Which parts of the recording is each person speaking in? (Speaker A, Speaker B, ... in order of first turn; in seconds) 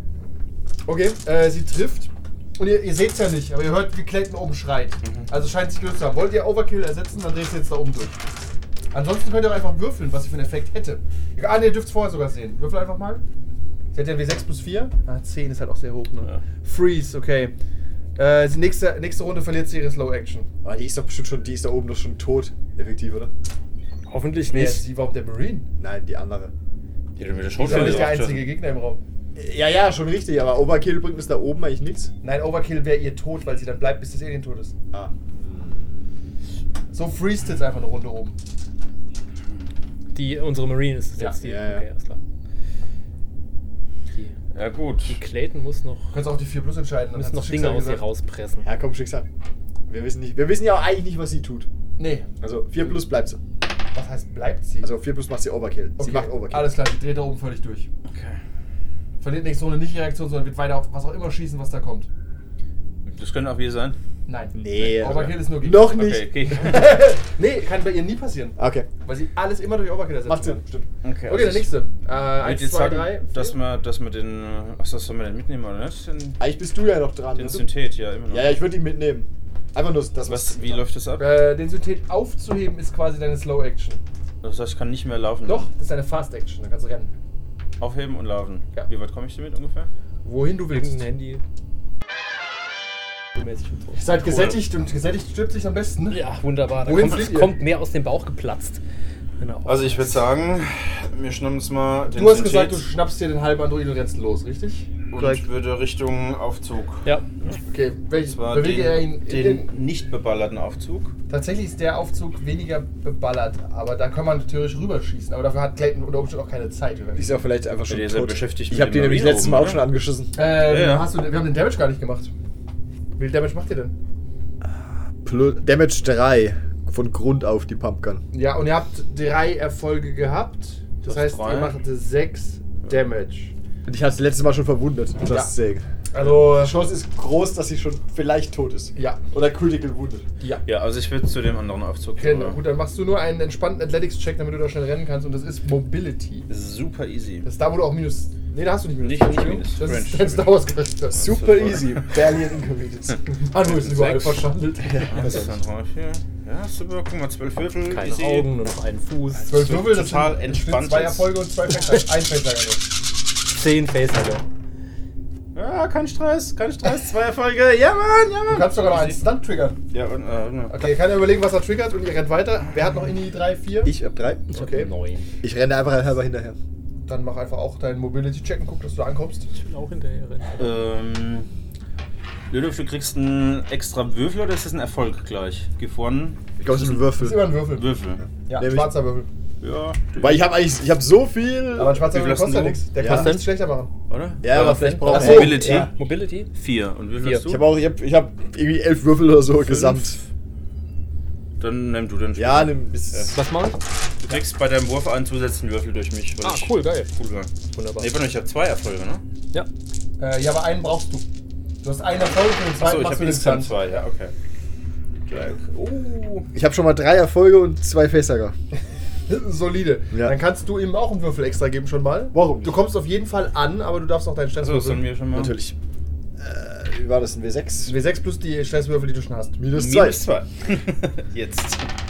Speaker A: 0.9-8.2, 8.9-13.2, 13.9-17.5, 18.2-20.5, 24.5-25.7, 27.6-29.0, 32.2-34.7, 36.9-38.4, 46.1-48.0, 52.0-52.3, 53.9-54.9, 56.0-57.9, 59.2-62.1, 64.3-66.0, 66.5-70.6, 71.3-73.5, 81.2-84.0, 85.5-87.1, 90.2-91.0, 94.0-96.2, 96.8-97.6, 102.1-105.4, 107.7-109.7, 111.3-117.3, 120.3-122.3, 123.2-124.0, 128.3-133.5, 136.1-136.8, 138.9-139.2, 140.4-140.6, 142.2-146.5, 147.4-151.3, 153.3-155.4, 159.5-162.8, 168.5-169.8, 170.7-173.9, 174.6-174.8, 177.1-179.5, 187.2-187.9, 188.5-189.3, 191.7-193.9, 195.1-195.8, 210.2-211.2, 211.8-214.0, 219.3-225.0, 227.8-229.6
Speaker B: 5.0-5.3, 27.2-28.5, 44.5-45.2, 58.0-58.4, 63.0-64.0, 64.8-67.1, 71.0-71.8, 72.4-76.4, 77.3-78.6, 80.2-81.4, 84.4-85.7, 87.8-89.9, 94.2-94.6, 99.7-102.8, 105.1-107.0, 108.3-111.1, 117.9-119.8, 120.4-121.1, 131.0-131.8, 140.6-142.6, 146.5-147.5, 149.0-150.6, 151.1-152.2, 153.7-154.2, 155.1-158.5, 159.3-161.3, 165.5-169.2, 169.9-170.9, 180.6-181.5, 182.5-187.1, 187.7-188.2, 189.6-190.4, 192.0-192.8, 194.1-195.9, 196.5-197.6, 199.6-200.2, 201.6-203.3, 204.2-209.2, 212.8-214.3, 215.3-216.5, 224.6-225.5, 229.7-231.9
Speaker C: 20.6-23.3, 25.8-26.5, 27.6-28.1, 29.4-32.1, 34.9-36.1, 41.4-41.8, 48.6-49.2, 49.9-51.7, 52.4-53.4, 54.8-56.8, 64.5-66.3, 68.6-68.9, 70.2-70.9, 76.4-77.7, 78.3-80.8, 117.2-120.3, 124.6-128.2, 133.8-140.2, 151.1-153.2, 154.8-155.5, 173.8-174.7, 175.4-176.6, 186.6-187.5, 188.5-188.9, 190.2-192.1, 193.0-193.4, 194.4-195.9, 197.4-200.2, 202.3-203.4, 216.5-218.5, 222.3-222.9, 225.3-225.8, 226.4-227.9, 229.6-230.2
Speaker D: 24.1-24.8, 40.1-42.2, 45.0-46.2, 47.1-48.7, 90.7-91.4, 93.3-94.0, 96.1-98.8, 99.4-100.2, 157.9-159.6, 163.5-164.4, 174.5-175.3, 179.5-180.7, 193.0-193.5, 194.4-196.5, 197.2-197.5, 203.3-203.8, 206.4-207.1, 207.7-208.1